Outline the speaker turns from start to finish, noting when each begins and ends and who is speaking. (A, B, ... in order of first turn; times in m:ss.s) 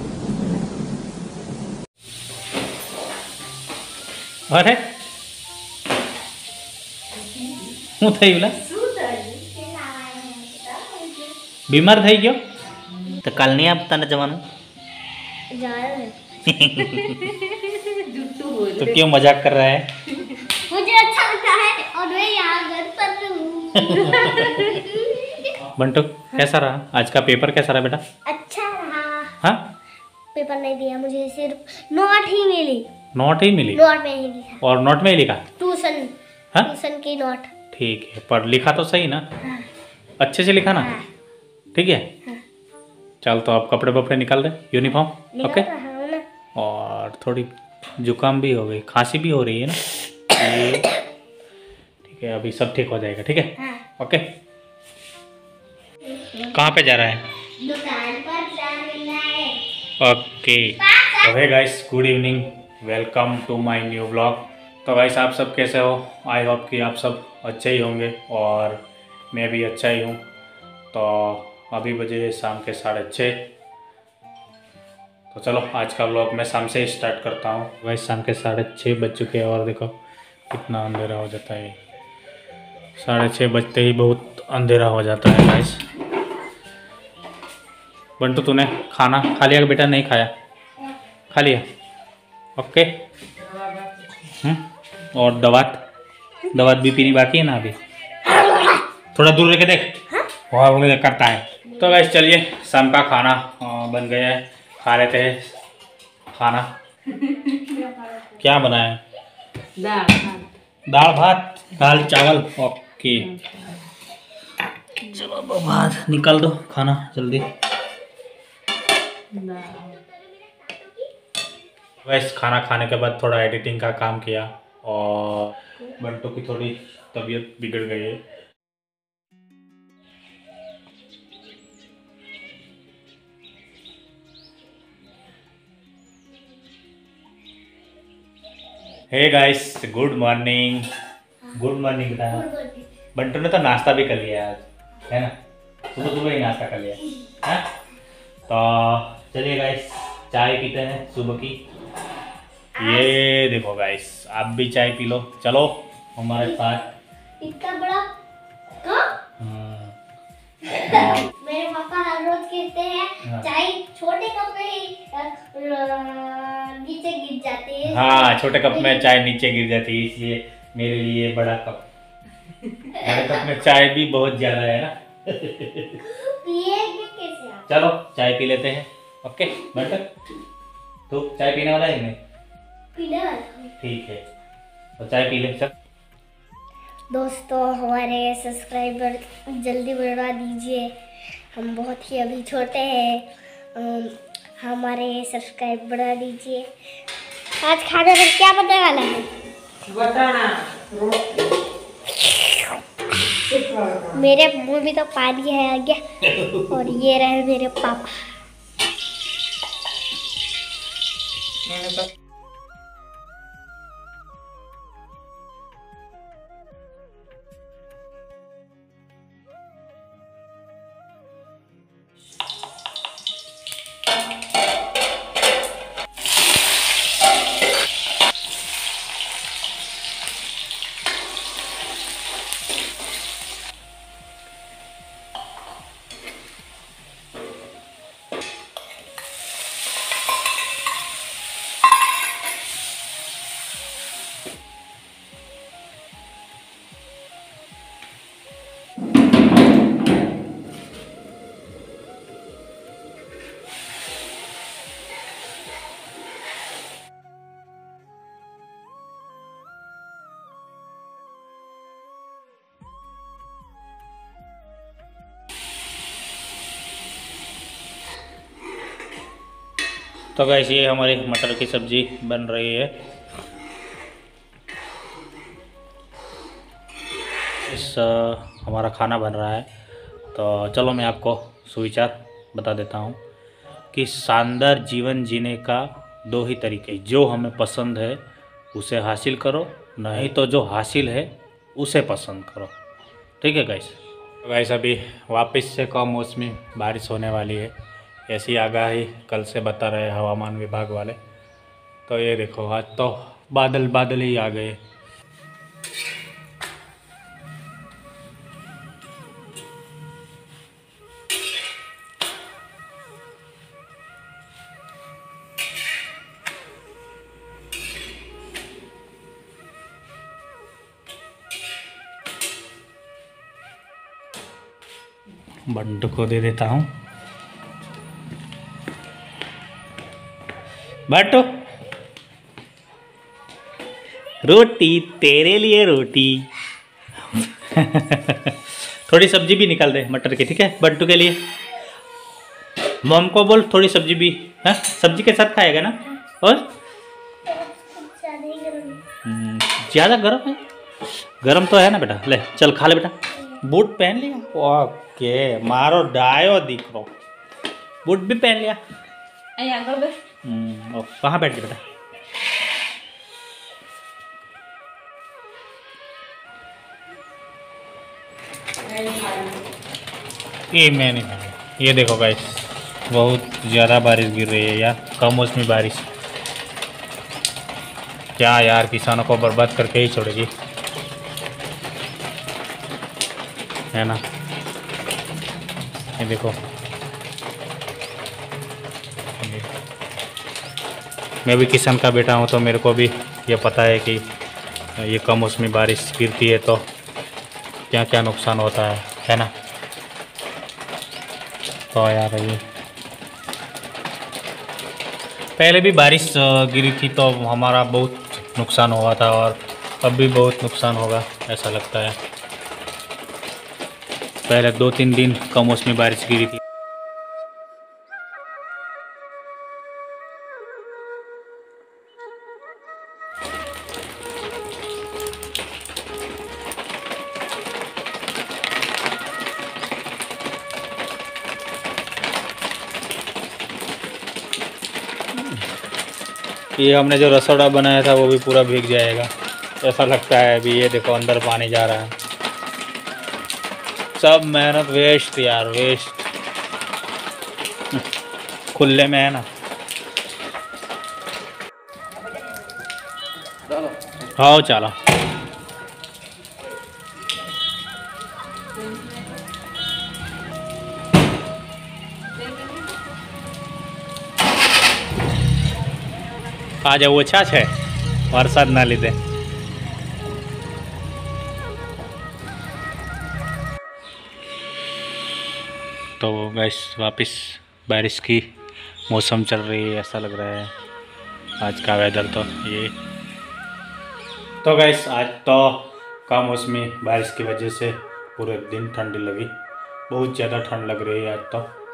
0:04.5-0:04.9 A
0:07.2-0:07.7 B
0:08.0-0:08.6 A
0:08.6-0:09.2 B
0:08.7-0:11.4 C
0:11.7-0:12.4 A
0:13.2-0:14.4 A
0:15.5-0:16.2 C
0:16.4-0:17.4 A
0:16.8-0:19.0 B
0:18.8-0:20.0 A
0:20.4-0:25.6 C
0:23.8-0:24.5 A
0:25.6-0:28.0 A
0:28.2-0:29.4 C
0:29.4-0:29.7 A
0:30.3-0:32.9 C
0:33.1-0:33.8 A
0:33.7-0:34.6 C
0:34.6-0:35.4 A
0:35.6-0:37.5 C
0:37.7-0:39.2 A
0:40.2-0:40.9 A
0:40.7-0:41.1 C
0:41.7-0:42.1 A
0:43.2-0:45.7 A
0:45.3-0:46.2 C
0:46.5-0:50.9 A
0:52.0-0:54.3 A
0:53.6-0:53.8 C
0:56.1-0:56.5 C
0:56.5-0:57.3 A
0:57.6-0:59.7 C
1:00.0-1:10.2 A
1:00.8-1:01.3 C
1:10.9-1:13.5 A
1:15.3-1:20.0 A
1:20.5-1:21.8 A
1:23.0-1:25.8 A
1:28.2-1:30.3 A
1:31.3-1:31.6 A
1:32.6-1:32.9 A
1:33.4-1:34.0 B
1:34.3-1:35.8 A
1:36.5-1:37.8 A
1:39.1-1:45.5 A
1:46.3-1:46.7 A
1:47.1-1:48.1 B
1:48.2-1:49.0 A
1:49.8-1:50.5 B
1:50.9-1:53.3 A
1:53.2-1:53.9 B
1:55.0-1:57.5 A
1:59.3-2:00.0 B
2:00.1-2:01.1 C
2:02.0-2:08.2 A
2:19.1-2:20.9 A
2:21.5-2:22.4 A
2:22.3-2:22.9 C
2:23.1-2:25.3 A
2:25.9-2:27.6 A
2:28.5-2:31.6 A
2:32.8-2:33.2 C
2:32.8-2:36.9 A
2:36.4-2:36.8 C
2:37.4-2:38.1 C
2:38.8-2:39.1 C
2:39.4-2:39.9 A
2:40.6-2:49.1 C
2:40.7-2:41.3 A
2:47.9-2:51.8 A
2:52.9-2:56.0 A
2:56.0-2:57.6 C
2:57.7-3:00.1 A
3:01.1-3:02.2 A
3:02.9-3:03.7 C
3:03.8-3:04.2 A
3:05.0-3:05.7 A
3:07.1-3:10.9 C
3:11.5-3:16.7 C
3:17.6-3:19.3 C
3:19.8-3:21.5 B
3:22.2-3:22.7 C
3:23.5-3:24.2 B
3:24.1-3:28.3 C
3:26.3-3:26.7 A
3:31.6-3:32.1 B
4:30.3-4:33.0 A
4:37.6-4:39.7 A
4:40.3-4:43.2 A
4:43.9-4:48.2 A
4:48.7-4:52.7 A
4:53.4-4:57.7 A
4:58.3-5:01.2 A
5:02.1-5:04.8 A
5:25.7-5:26.9 A
5:31.1-5:31.5 A
5:34.4-5:36.5 A
5:37.3-5:41.4 A
5:43.0-5:46.7 A
5:47.4-5:49.0 C
5:49.2-5:50.6 A
5:51.4-5:57.1 A
5:58.0-5:58.8 A
5:59.6-6:00.2 B
6:00.4-6:01.8 A
6:08.8-6:09.6 B
6:10.7-6:16.1 A
6:18.4-6:20.5 A
6:23.9-6:24.2 A
6:26.2-6:26.6 A
6:29.4-6:29.7 A
6:31.4-6:34.3 A
6:35.0-6:36.9 A
6:37.9-6:39.5 A
6:41.9-6:42.6 A
6:45.6-6:52.2 A
6:54.5-6:56.6 A
7:16.8-7:22.1 A
7:24.2-7:26.3 A
7:28.7-7:29.5 A
7:34.3-7:34.9 A
7:38.8-7:39.3 B
7:42.5-7:42.7 B
7:46.8-7:47.7 A
7:48.3-7:49.2 A
7:56.2-7:58.5 A
7:59.1-8:00.7 A
8:01.6-8:02.9 A
8:04.6-8:09.5 A
8:10.1-8:11.7 A